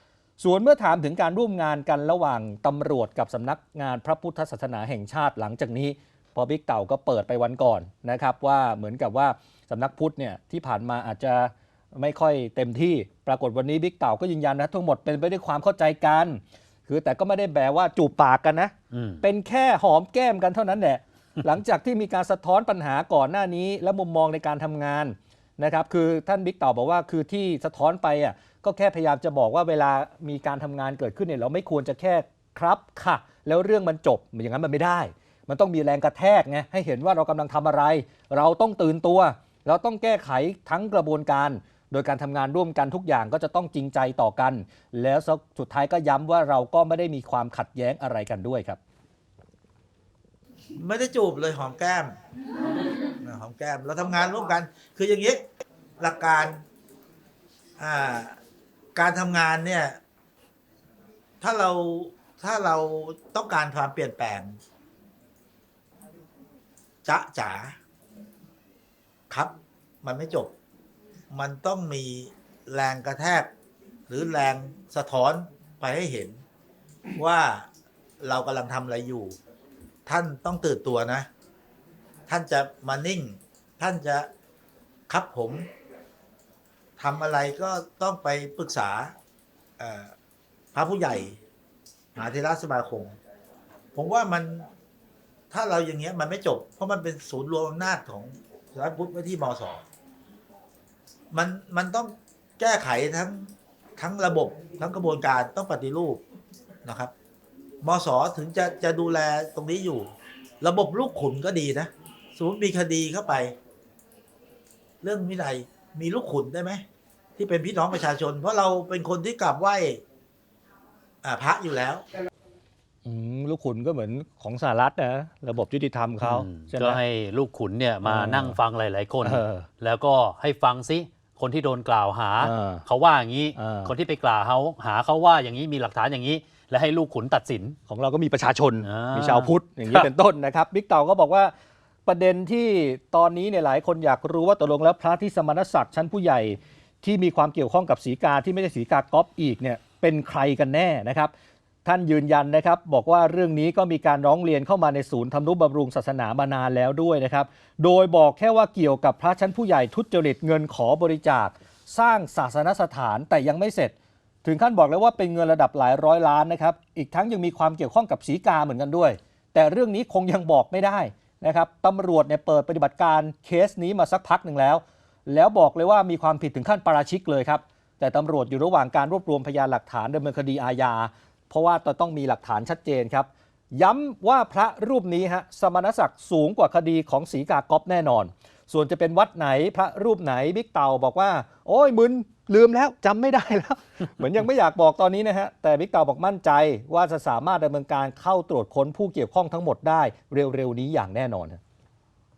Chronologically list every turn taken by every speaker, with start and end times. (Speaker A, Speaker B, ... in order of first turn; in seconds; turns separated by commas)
Speaker A: 0.4-48.8, Speaker B: 18.9-19.2, Speaker C: 50.8-52.2, Speaker C: 53.2-55.4, Speaker C: 56.0-56.6, Speaker C: 57.8-58.4, Speaker C: 58.9-60.0, Speaker C: 61.4-64.6, Speaker C: 67.0-67.8, Speaker C: 69.3-70.5, Speaker C: 71.3-73.5, Speaker C: 74.1-76.4, Speaker C: 77.2-77.7, Speaker C: 78.2-79.4, Speaker C: 80.0-81.3, Speaker C: 82.3-84.3, Speaker C: 85.1-85.7, Speaker C: 87.0-89.1, Speaker C: 89.8-90.1, Speaker C: 90.7-91.4, Speaker C: 92.1-93.2, Speaker C: 93.9-94.7, Speaker C: 95.5-99.8, Speaker C: 101.3-106.2, Speaker C: 106.8-107.1, Speaker C: 107.8-113.5, Speaker C: 115.0-116.8, Speaker C: 117.4-120.0, Speaker C: 121.2-122.0, Speaker A: 123.0-127.0, Speaker B: 126.2-137.8, Speaker A: 128.0-128.6, Speaker A: 129.2-129.7, Speaker A: 132.4-132.8, Speaker A: 133.6-133.9, Speaker A: 137.9-141.5, Speaker B: 138.8-140.1, Speaker A: 142.1-151.3, Speaker A: 151.8-201.6